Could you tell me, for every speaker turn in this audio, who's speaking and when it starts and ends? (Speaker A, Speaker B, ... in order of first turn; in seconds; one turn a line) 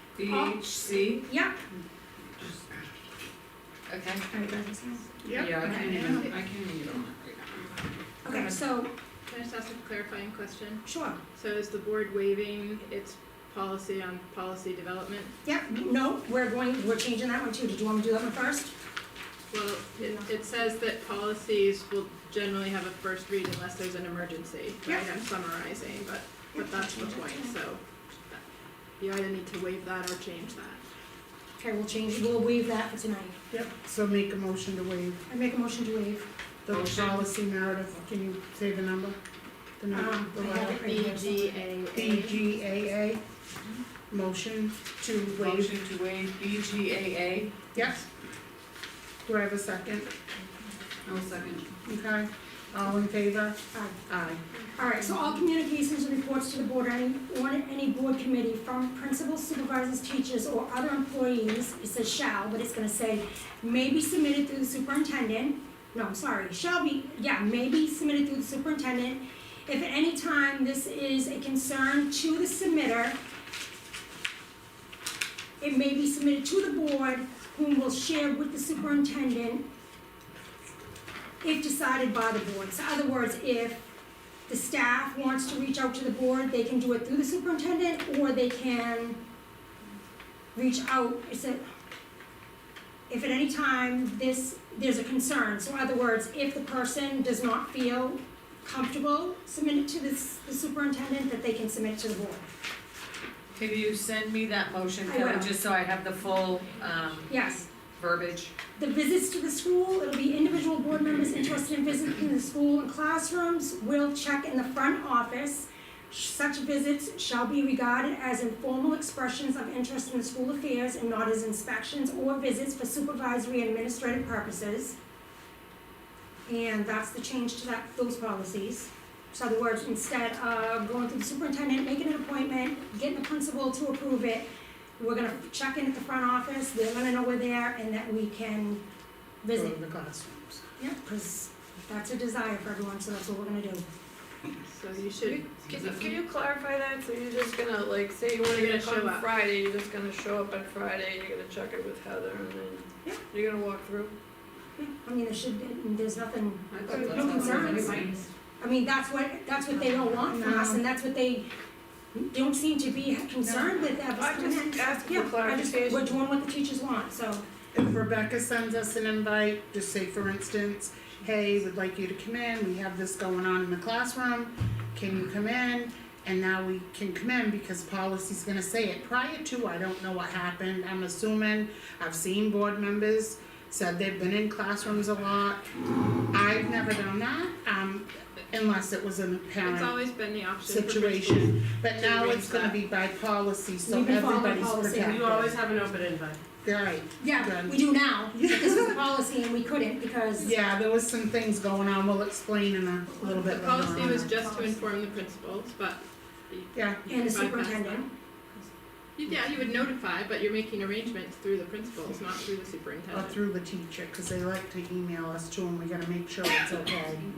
Speaker A: 0.2-1.2
Speaker B: 0.2-1.6
Speaker A: 3.9-4.2
Speaker B: 4.3-5.1
Speaker C: 5.2-6.3
Speaker A: 5.3-7.8
Speaker B: 8.2-8.9
Speaker D: 9.3-10.8
Speaker B: 10.8-11.2
Speaker D: 11.3-15.3
Speaker B: 15.4-18.7
Speaker D: 19.5-28.4
Speaker B: 20.0-20.2
Speaker B: 26.5-27.5
Speaker D: 29.0-30.8
Speaker B: 31.6-33.4
Speaker C: 33.5-35.2
Speaker B: 35.3-36.3
Speaker C: 36.6-39.2
Speaker A: 36.7-37.2
Speaker C: 39.8-40.8
Speaker B: 39.9-41.5
Speaker D: 40.6-42.4
Speaker C: 41.9-43.2
Speaker C: 44.1-45.8
Speaker A: 45.4-47.7
Speaker C: 47.7-48.0
Speaker C: 49.2-50.1
Speaker A: 51.0-51.7
Speaker C: 51.8-54.4
Speaker B: 54.8-73.2
Speaker B: 75.6-79.7
Speaker B: 81.4-83.8
Speaker B: 84.5-89.2
Speaker B: 90.5-91.6
Speaker B: 93.1-102.5
Speaker A: 103.5-107.4
Speaker B: 105.0-105.5
Speaker B: 107.3-107.7
Speaker A: 107.9-108.5
Speaker B: 108.8-125.0
Speaker B: 126.5-138.8
Speaker B: 139.4-139.8
Speaker C: 139.5-140.6
Speaker B: 140.8-143.8
Speaker D: 144.7-145.9
Speaker E: 145.4-154.1
Speaker D: 148.4-149.3
Speaker B: 154.8-161.5
Speaker A: 156.8-158.1
Speaker E: 156.9-157.9
Speaker F: 156.9-158.0
Speaker C: 160.3-160.8
Speaker B: 162.1-167.4
Speaker C: 163.4-163.9
Speaker E: 164.1-166.1
Speaker C: 167.7-185.7
Speaker C: 186.3-190.0
Speaker D: 189.6-192.8
Speaker C: 190.6-195.6
Speaker B: 193.8-195.5
Speaker F: 195.3-196.4
Speaker C: 196.6-199.0
Speaker B: 197.2-200.6
Speaker C: 200.4-204.3
Speaker D: 203.3-208.1
Speaker B: 203.6-204.8
Speaker C: 206.7-207.0
Speaker B: 207.1-208.1
Speaker D: 209.2-213.4
Speaker C: 213.1-217.3